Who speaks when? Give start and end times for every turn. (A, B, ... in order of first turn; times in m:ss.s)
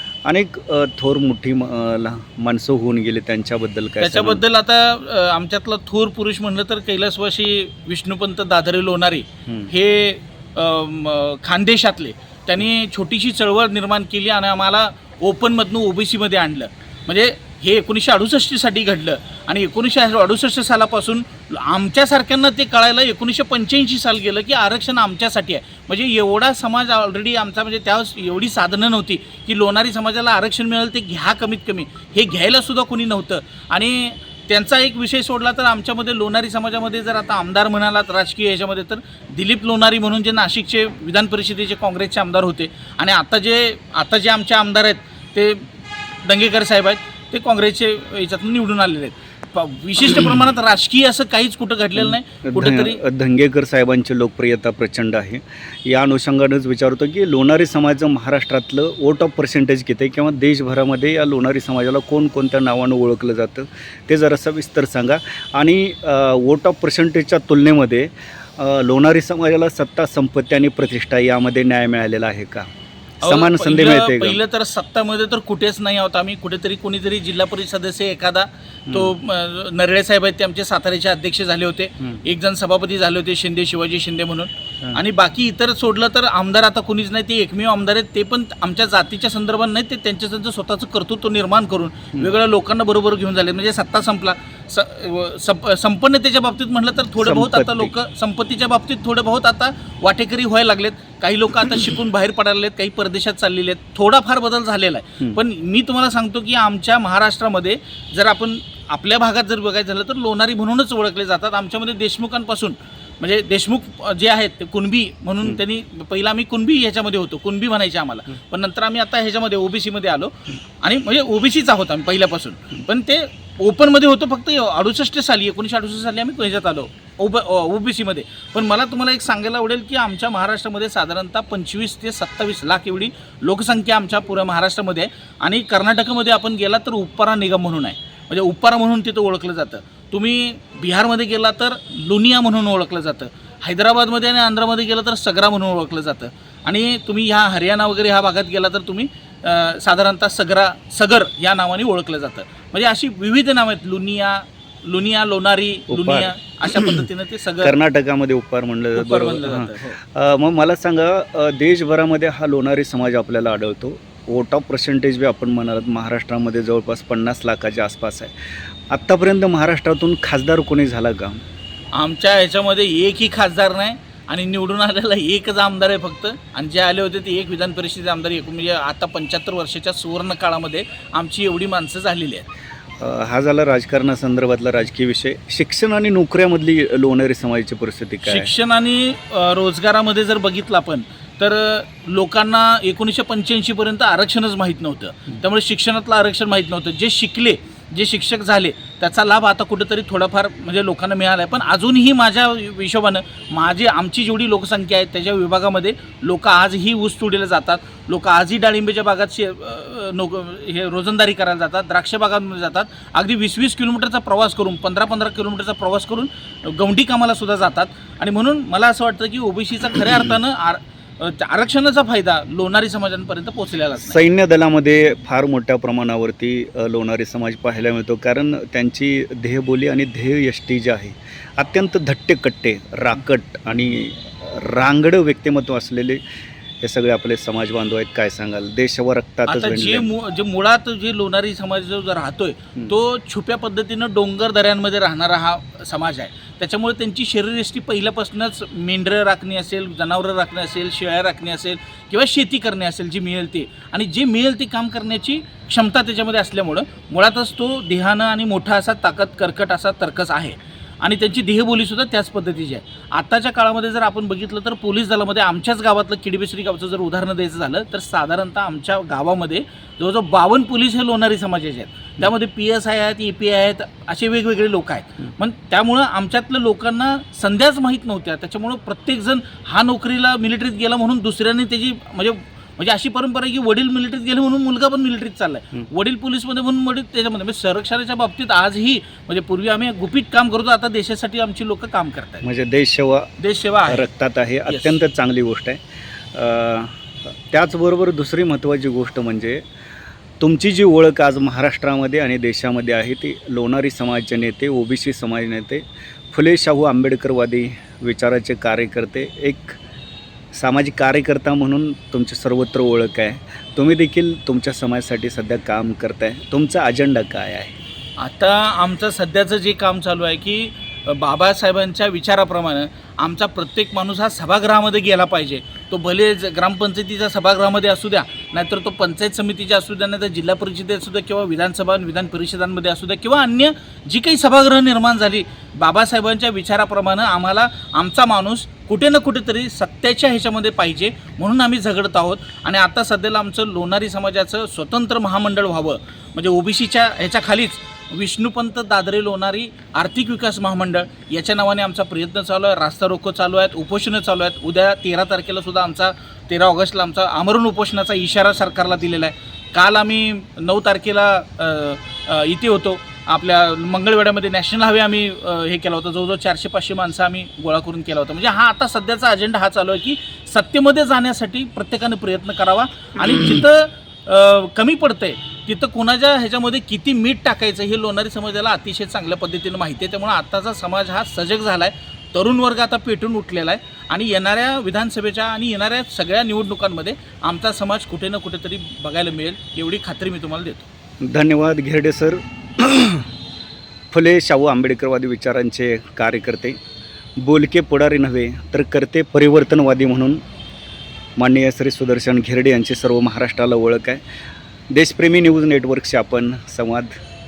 0:00.2-0:04.4 A
0:04.0-0:45.7 B
0:46.2-0:53.0 B
0:52.0-1:12.7 A
1:13.2-1:14.4 A
1:13.2-2:37.7 B
1:18.9-1:19.2 A
1:37.2-1:37.9 A
2:35.9-2:37.0 A
2:37.6-2:48.3 A
2:39.0-2:40.0 B
2:48.9-2:51.4 A
2:52.0-3:02.5 B
3:03.0-3:08.5 A
3:08.2-3:44.2 B
3:44.0-3:56.2 A
3:56.8-4:00.1 A
3:59.5-4:52.4 B
4:52.4-4:53.3 A
4:53.4-4:54.1 B
4:53.9-4:55.8 A
4:54.7-4:55.0 B
4:56.3-4:59.6 A
5:00.4-5:09.8 A
5:10.5-5:17.8 A
5:18.2-6:30.9 B
6:31.2-6:33.3 A
6:34.1-6:36.8 A
6:37.4-6:40.4 A
6:41.4-6:44.2 A
6:44.9-6:47.1 A